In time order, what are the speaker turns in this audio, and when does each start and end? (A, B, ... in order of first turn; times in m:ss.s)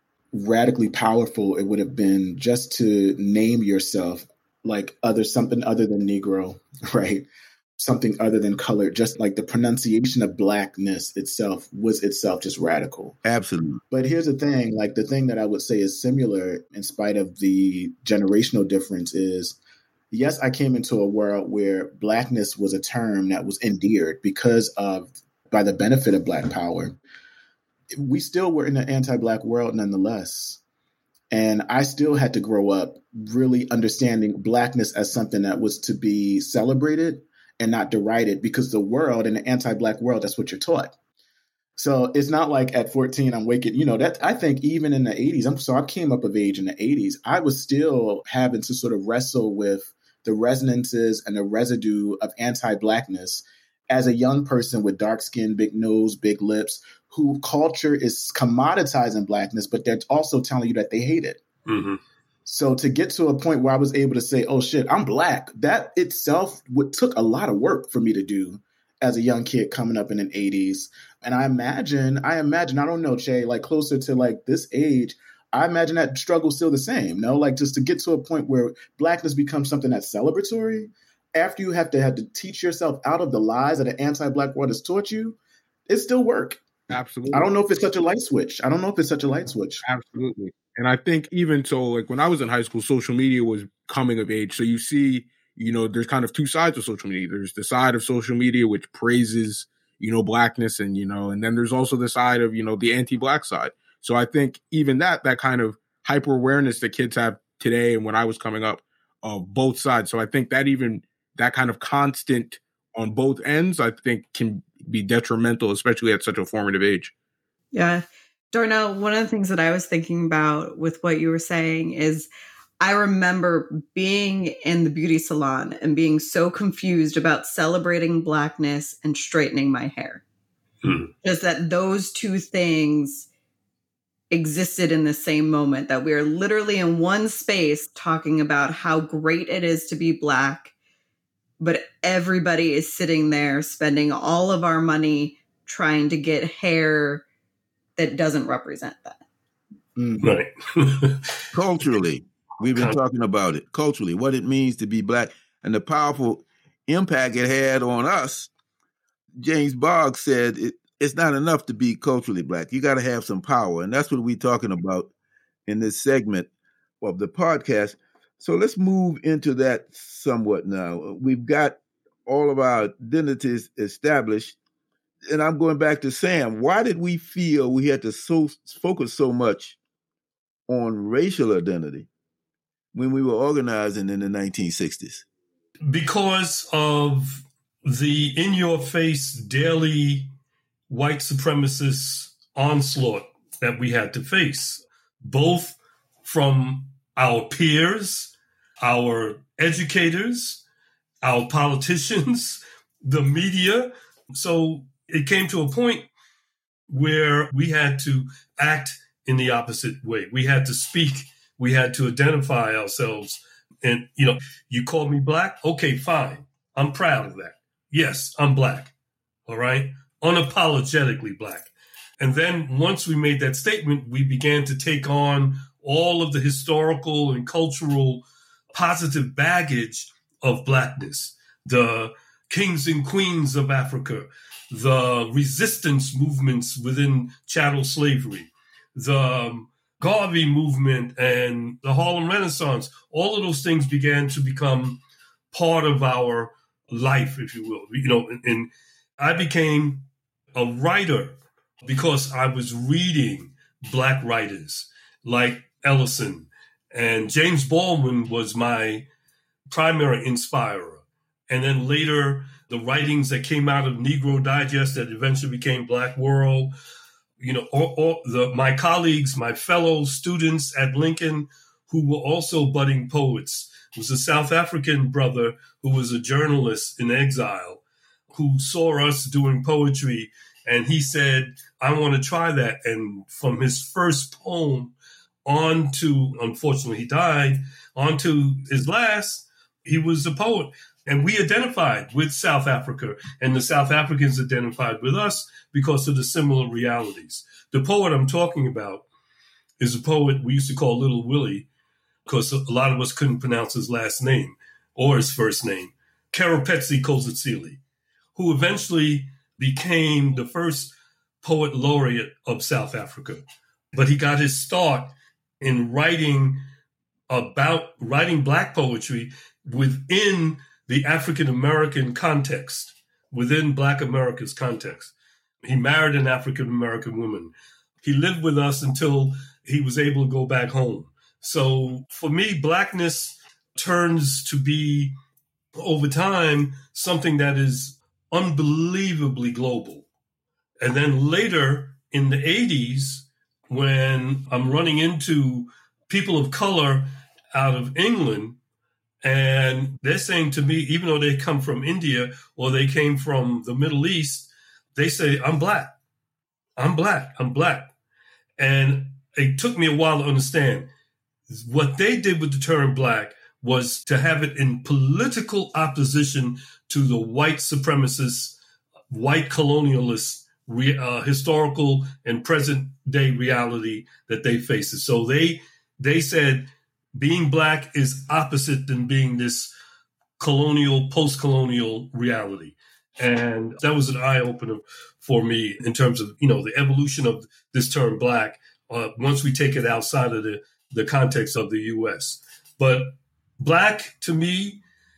0:00.3-0:13.2 A
0:13.2-0:13.8 B
0:13.9-0:19.6 A
0:20.1-0:27.0 A
0:28.0-0:30.6 A
0:31.3-0:40.9 A
0:41.8-1:01.4 A
1:01.7-1:02.0 C
1:02.4-1:25.4 A
1:25.9-1:26.6 A
1:26.9-1:27.5 D
1:27.3-1:29.8 A
1:29.8-1:57.1 D
1:57.7-2:02.3 E
2:02.8-2:10.2 E
2:10.8-2:11.1 C
2:11.2-2:13.3 E
2:14.3-2:20.7 E
2:21.6-2:27.2 E
2:28.0-2:29.2 E
2:30.0-2:30.4 A
2:30.2-2:31.4 C
2:31.5-2:38.5 B
2:39.4-2:45.1 B
2:45.7-2:46.5 B
2:47.0-2:54.6 B
2:55.3-2:59.8 B
3:00.7-3:02.1 B
3:02.9-3:05.2 B
3:05.9-3:10.3 C
3:10.9-3:20.6 C
3:21.2-3:26.1 C
3:26.9-3:38.9 C
3:39.5-4:05.0 C
4:05.5-4:19.1 C
4:19.7-4:26.7 C
4:27.4-4:44.9 C
4:45.4-4:59.0 C
4:59.8-5:01.7 C
5:02.3-5:07.8 C
5:08.3-5:16.6 C
5:17.3-5:35.1 C
5:35.7-5:40.1 C
5:40.8-5:48.6 C
5:49.2-5:55.9 C
5:56.8-5:57.9 C
5:58.6-6:00.9 C
6:01.5-6:08.6 C
6:09.1-6:19.7 C
6:20.4-6:34.8 C